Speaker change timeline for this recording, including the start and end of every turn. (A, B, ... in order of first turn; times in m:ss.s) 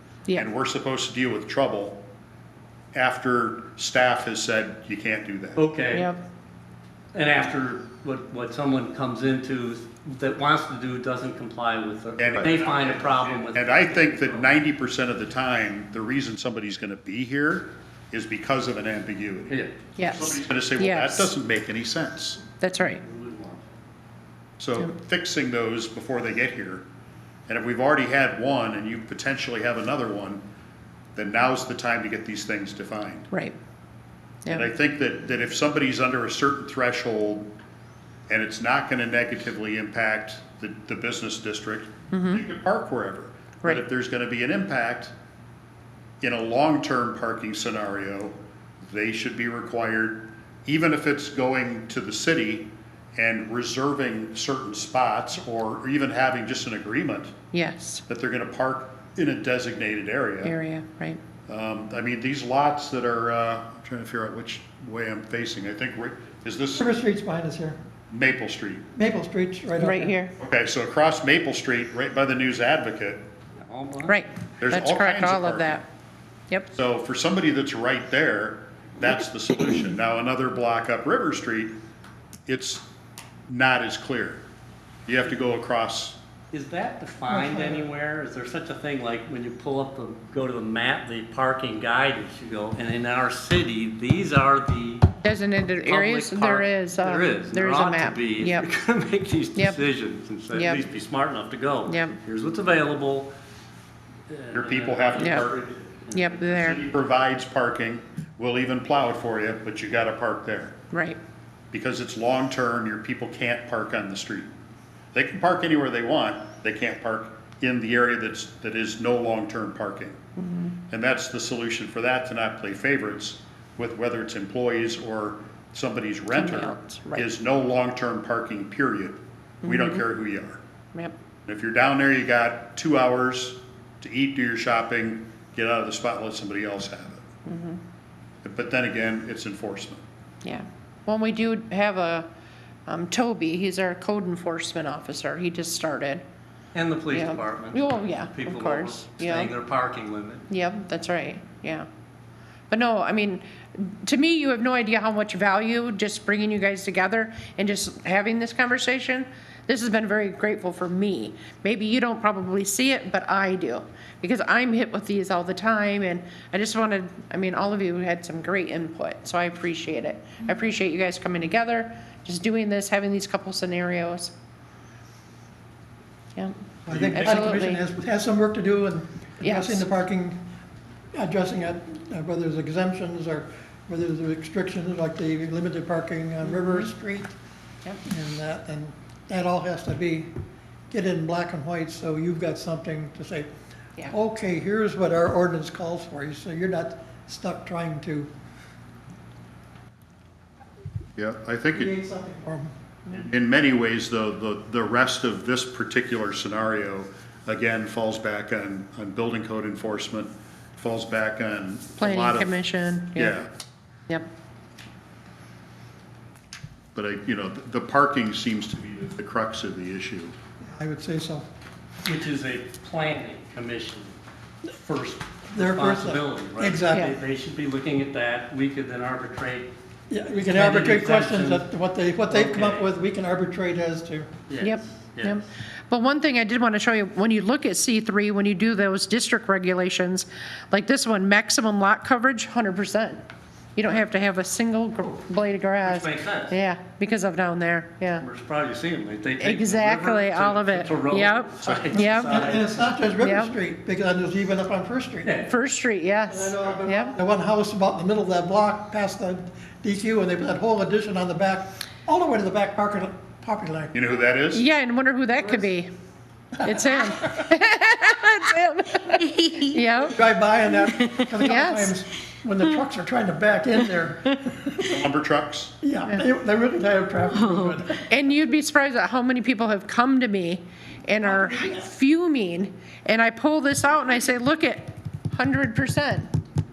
0:00.3-0:02.0 A
0:02.9-0:05.6 A
0:05.6-0:06.1 B
0:05.9-0:06.2 C
0:07.1-0:14.5 B
0:12.2-0:22.4 A
0:19.5-0:19.8 B
0:20.0-0:21.3 C
0:22.6-0:23.0 C
0:23.0-0:23.7 B
0:24.6-0:26.8 A
0:27.5-0:30.4 A
0:31.2-0:33.3 A
0:33.3-0:33.6 C
0:34.5-0:37.5 A
0:38.3-0:45.1 A
0:42.1-0:42.4 C
0:46.2-0:57.3 A
0:57.5-0:58.0 C
0:58.1-1:00.6 A
1:00.4-1:01.2 C
1:01.5-1:06.9 A
1:06.8-1:07.8 D
1:08.1-1:08.9 A
1:09.0-1:10.2 D
1:09.8-1:10.3 C
1:10.4-1:13.2 A
1:13.6-1:14.2 B
1:14.1-1:15.8 C
1:14.6-1:15.8 A
1:16.7-1:21.8 A
1:22.5-1:22.9 A
1:23.5-1:24.4 A
1:25.1-1:26.2 A
1:26.5-1:35.1 B
1:27.3-1:27.8 C
1:35.2-1:38.7 C
1:35.9-1:43.3 B
1:39.6-1:39.8 C
1:40.5-1:40.8 C
1:41.9-1:42.2 C
1:44.3-1:46.4 B
1:44.5-1:45.6 A
1:45.2-1:45.5 C
1:46.1-1:46.8 C
1:46.5-1:50.8 A
1:50.9-1:51.2 C
1:51.7-1:54.5 A
1:55.1-2:00.2 A
2:00.4-2:00.8 C
2:00.9-2:10.6 A
2:06.3-2:07.3 C
2:09.6-2:10.0 C
2:11.5-2:17.2 A
2:17.5-2:17.8 C
2:18.4-2:20.0 A
2:20.4-2:22.3 C
2:22.9-2:26.2 C
2:26.7-2:30.5 B
2:27.1-2:29.5 C
2:30.5-2:31.9 C
2:32.7-2:54.3 C
2:56.9-3:00.4 D
2:56.9-2:57.4 B
2:57.0-2:57.8 C
2:59.4-2:59.8 C
3:01.1-3:07.3 D
3:06.4-3:06.9 C
3:08.0-3:10.3 D
3:10.9-3:13.5 D
3:14.1-3:18.3 D
3:21.2-3:21.9 A
3:21.7-3:22.7 D
3:23.1-3:33.5 A
3:32.0-3:33.4 C
3:37.0-3:40.3 A
3:40.6-3:41.5 D
3:42.0-3:44.2 B
3:44.8-3:49.7 B
3:45.5-3:47.1 D
3:50.1-3:54.3 D
3:50.3-3:51.6 B
3:52.3-3:52.9 B
3:54.5-3:55.4 B
3:54.6-4:03.2 C
4:03.8-4:08.2 C
4:05.8-4:06.6 B
4:08.2-4:12.9 B
4:09.4-4:12.5 C
4:11.6-4:15.3 D
4:13.2-4:13.6 C
4:15.2-4:15.5 B
4:15.4-4:17.2 C
4:16.3-4:23.9 D
4:23.9-4:24.6 A
4:24.5-4:25.9 C
4:26.6-4:30.2 C
4:30.1-4:35.0 D
4:31.4-4:32.0 C
4:34.8-4:35.7 A
4:35.8-4:38.0 D
4:38.0-4:46.3 C